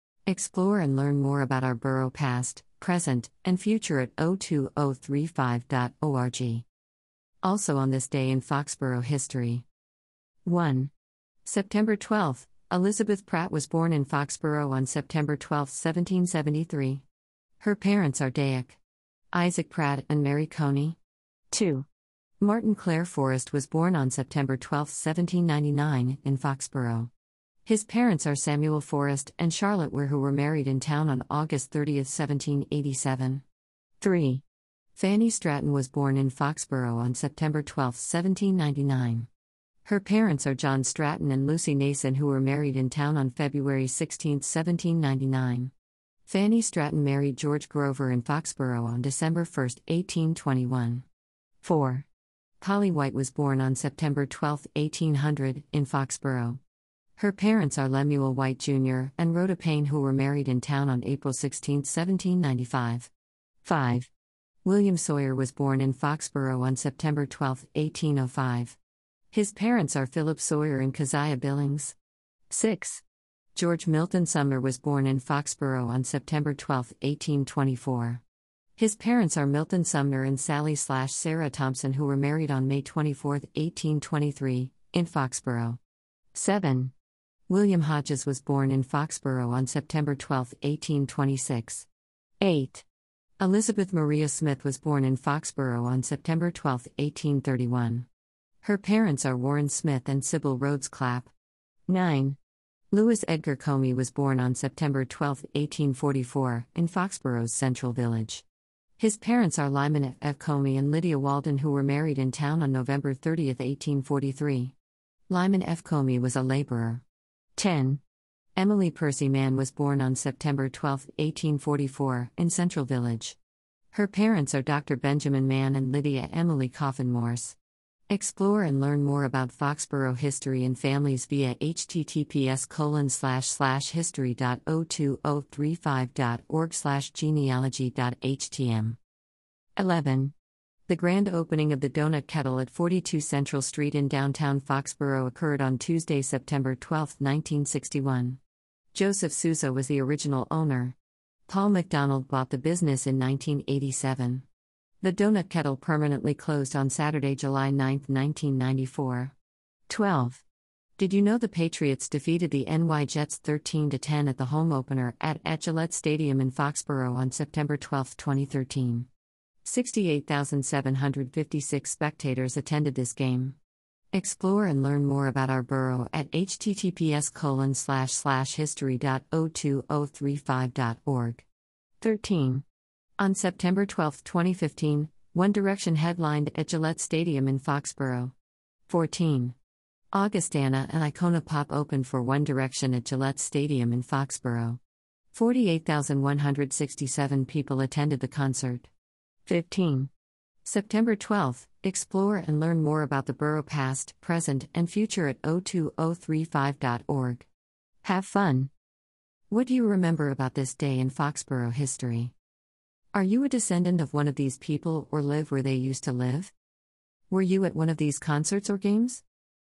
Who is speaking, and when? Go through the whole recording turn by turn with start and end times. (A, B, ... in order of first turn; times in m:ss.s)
0:00.3-0:06.6 A
0:07.4-0:09.6 A
0:10.4-0:10.9 A
0:11.4-0:17.0 A
0:17.6-0:18.8 A
0:19.3-0:21.0 A
0:21.5-0:21.9 A
0:22.4-0:27.1 A
0:27.6-0:33.4 A
0:34.0-0:34.4 A
0:35.0-0:39.3 A
0:39.8-0:45.7 A
0:46.2-0:51.0 A
0:51.6-0:52.1 A
0:52.6-0:56.6 A
0:57.2-1:03.1 A
1:03.6-1:04.1 A
1:04.6-1:08.8 A
1:09.3-1:12.0 A
1:12.5-1:13.0 A
1:13.5-1:18.2 A
1:18.8-1:25.8 A
1:26.3-1:26.9 A
1:27.5-1:31.9 A
1:32.4-1:32.8 A
1:33.4-1:38.1 A
1:38.6-1:41.3 A
1:41.9-1:42.4 A
1:42.9-1:48.4 A
1:49.0-1:54.7 A
1:55.3-1:57.0 A
1:57.6-1:58.0 A
1:58.6-2:03.4 A
2:03.9-2:07.6 A
2:08.1-2:19.0 A
2:19.8-2:20.3 A
2:20.9-2:28.4 A
2:28.9-2:31.0 A
2:31.5-2:34.4 A
2:35.0-2:39.3 A
2:39.9-2:40.4 A
2:41.0-2:49.1 A
2:49.6-2:53.6 A
2:54.1-3:01.4 A
3:02.0-3:02.6 A
3:03.2-3:08.3 A
3:08.9-3:09.6 A
3:10.1-3:14.8 A
3:15.3-3:18.9 A
3:19.4-3:20.1 A
3:20.6-3:27.5 A
3:28.0-3:28.7 A
3:29.5-3:32.3 A
3:33.1-3:36.5 A
3:37.3-3:39.2 A